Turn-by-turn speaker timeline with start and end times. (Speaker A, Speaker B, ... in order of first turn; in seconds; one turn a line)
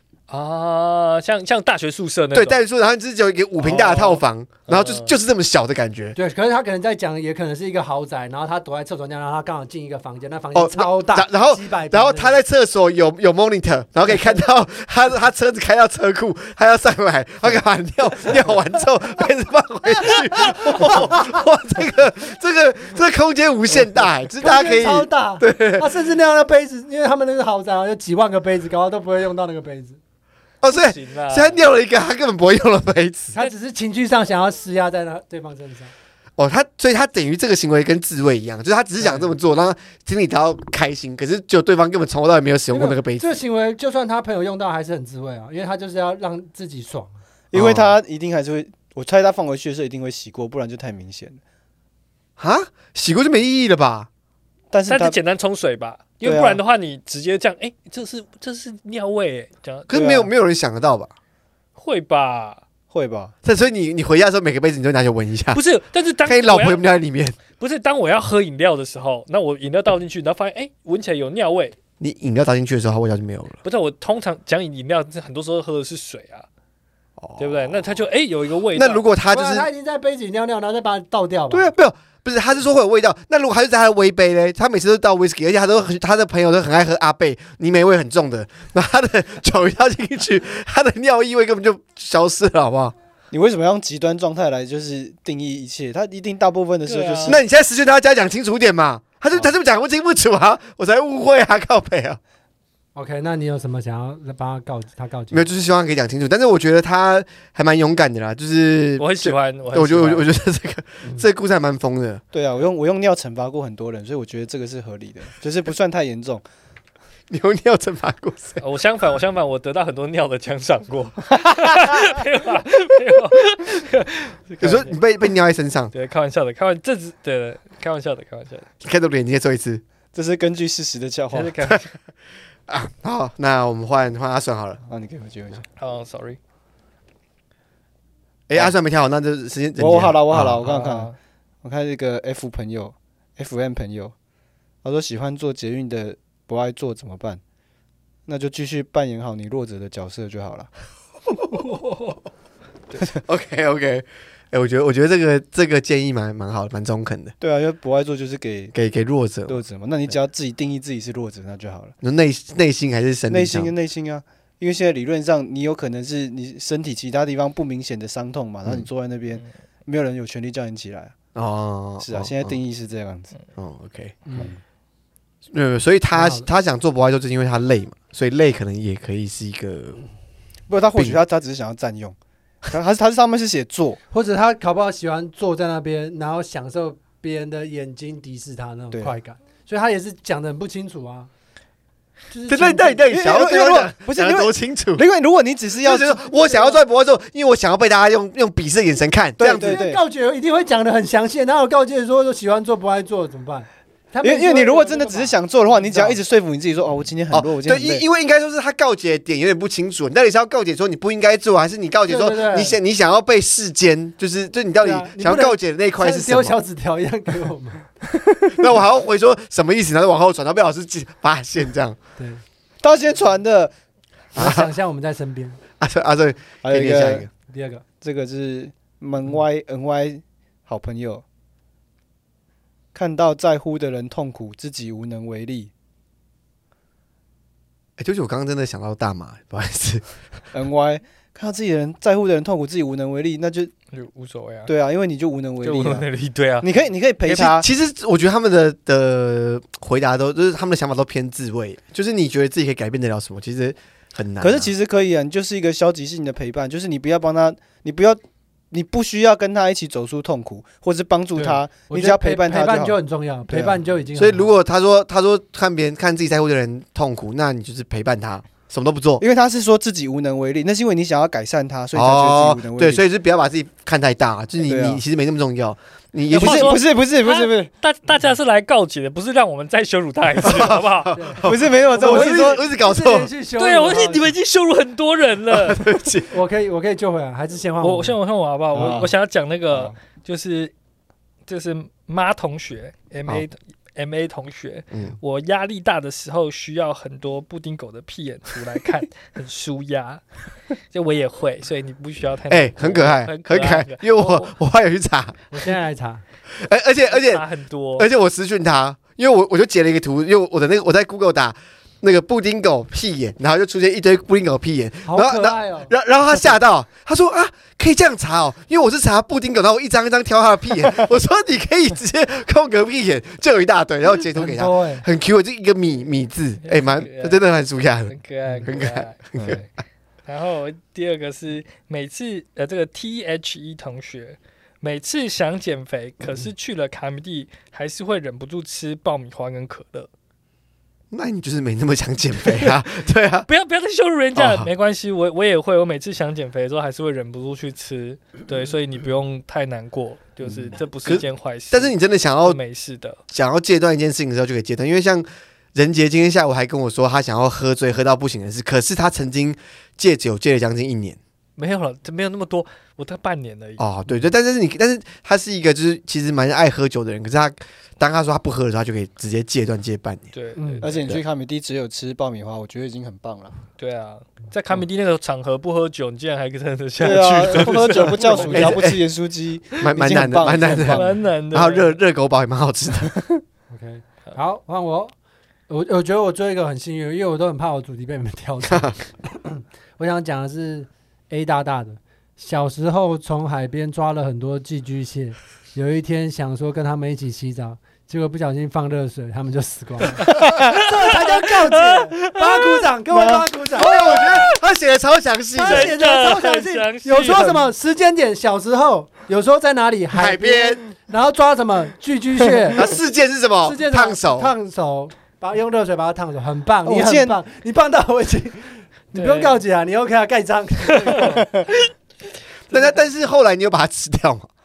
Speaker A: 0.3-2.6
Speaker B: 2.3-6.2
Speaker C: 3.6-4.2
Speaker A: 4.7-5.1
Speaker D: 6.2-12.4
Speaker B: 10.5-25.9
Speaker D: 14.1-14.4
Speaker D: 24.4-30.0
Speaker B: 30.6-33.5
Speaker A: 30.7-31.6
Speaker D: 33.3-35.9
Speaker B: 36.4-43.4
Speaker D: 42.7-47.2
Speaker C: 47.5-51.4
Speaker B: 47.5-48.0
Speaker B: 52.4-54.1
Speaker C: 54.7-55.2
Speaker A: 54.9-59.9
Speaker C: 56.2-56.6
Speaker B: 59.9-61.1
Speaker C: 59.9-60.3
Speaker A: 61.8-62.6
Speaker C: 62.9-63.3
Speaker B: 63.4-65.6
Speaker A: 65.5-66.9
Speaker B: 66.2-67.4
Speaker A: 67.5-71.8
Speaker B: 72.0-73.6
Speaker A: 73.6-76.5
Speaker B: 77.2-77.9
Speaker A: 77.4-79.0
Speaker B: 78.7-79.7
Speaker D: 79.3-81.7
Speaker B: 81.5-93.0
Speaker C: 93.3-97.4
Speaker A: 96.8-97.4
Speaker B: 97.2-102.2
Speaker D: 103.0-105.5
Speaker B: 105.3-112.2
Speaker A: 109.0-110.3
Speaker C: 112.3-116.4
Speaker B: 117.3-118.6
Speaker A: 118.6-125.0
Speaker B: 124.6-125.9
Speaker A: 125.9-128.7
Speaker B: 128.8-129.8
Speaker C: 130.1-131.5
Speaker A: 131.3-131.9
Speaker B: 132.7-134.8
Speaker C: 134.9-135.7
Speaker A: 135.8-136.4
Speaker B: 138.5-140.5
Speaker C: 139.8-144.1
Speaker A: 140.5-141.2
Speaker C: 144.8-147.4
Speaker C: 148.3-150.7
Speaker A: 151.5-152.2
Speaker B: 153.2-157.3
Speaker C: 157.4-158.8
Speaker B: 158.7-159.6
Speaker C: 159.5-161.9
Speaker B: 162.0-163.7
Speaker C: 163.3-171.1
Speaker B: 171.3-172.6
Speaker C: 172.0-173.3
Speaker B: 173.6-174.2
Speaker D: 174.3-174.6
Speaker B: 175.5-180.0
Speaker D: 176.1-176.5
Speaker C: 180.7-182.2
Speaker C: 182.7-184.0
Speaker D: 184.1-191.3
Speaker D: 192.3-193.1
Speaker B: 192.5-195.0
Speaker C: 193.1-196.2
Speaker B: 195.8-199.8
Speaker C: 199.4-200.0
Speaker D: 199.4-206.2
Speaker C: 204.2-208.1
Speaker B: 207.3-216.6
Speaker D: 212.1-212.8
Speaker D: 214.8-217.9
Speaker B: 218.5-222.0
Speaker D: 222.2-222.4
Speaker C: 222.8-223.7
Speaker D: 224.3-225.6
Speaker B: 224.4-224.7
Speaker B: 225.8-227.3
Speaker C: 226.6-227.3
Speaker D: 227.5-227.8
Speaker C: 228.0-231.2
Speaker C: 232.9-235.7
Speaker B: 238.0-240.2
Speaker C: 240.5-243.7
Speaker A: 243.9-244.7
Speaker C: 244.7-246.1
Speaker A: 245.6-246.7
Speaker C: 246.6-247.7
Speaker B: 247.2-254.7
Speaker C: 254.4-263.0
Speaker D: 261.4-264.5
Speaker C: 263.5-263.8
Speaker B: 264.1-269.2
Speaker C: 269.2-273.0
Speaker B: 271.9-276.8
Speaker C: 274.6-275.0
Speaker C: 276.3-277.7
Speaker A: 276.4-281.2
Speaker B: 280.4-283.3
Speaker D: 281.2-284.3
Speaker C: 281.4-282.6
Speaker A: 283.6-285.8
Speaker B: 285.5-286.3
Speaker D: 286.3-288.2
Speaker A: 287.8-290.7
Speaker C: 288.7-289.1
Speaker A: 291.5-300.2
Speaker B: 294.9-295.2
Speaker A: 300.7-304.5
Speaker B: 302.5-305.4
Speaker D: 305.5-306.2
Speaker B: 306.5-307.4
Speaker A: 307.1-308.1
Speaker B: 308.0-329.6
Speaker D: 315.1-315.9
Speaker D: 324.4-325.1
Speaker A: 326.6-327.4
Speaker A: 328.1-329.7
Speaker A: 330.3-340.1
Speaker B: 341.1-343.5
Speaker A: 343.5-353.2
Speaker B: 344.4-344.7
Speaker C: 350.4-350.7
Speaker B: 351.0-352.6
Speaker B: 353.3-361.2
Speaker A: 361.6-363.8
Speaker B: 363.8-370.3
Speaker A: 370.3-371.1
Speaker D: 370.6-370.9
Speaker C: 370.8-373.6
Speaker A: 373.8-378.8
Speaker C: 377.0-381.1
Speaker B: 378.4-379.0
Speaker B: 379.8-383.2
Speaker A: 380.9-382.0
Speaker D: 383.7-385.1
Speaker D: 385.7-404.2
Speaker B: 388.7-388.9
Speaker A: 400.2-402.9
Speaker C: 403.1-403.5
Speaker B: 403.8-406.0
Speaker A: 403.9-404.5
Speaker D: 405.5-412.9
Speaker A: 405.7-407.7
Speaker B: 410.1-410.8
Speaker B: 412.8-414.6
Speaker D: 413.6-421.5
Speaker C: 416.8-417.4
Speaker A: 419.1-419.6
Speaker B: 422.7-424.5
Speaker D: 422.7-423.0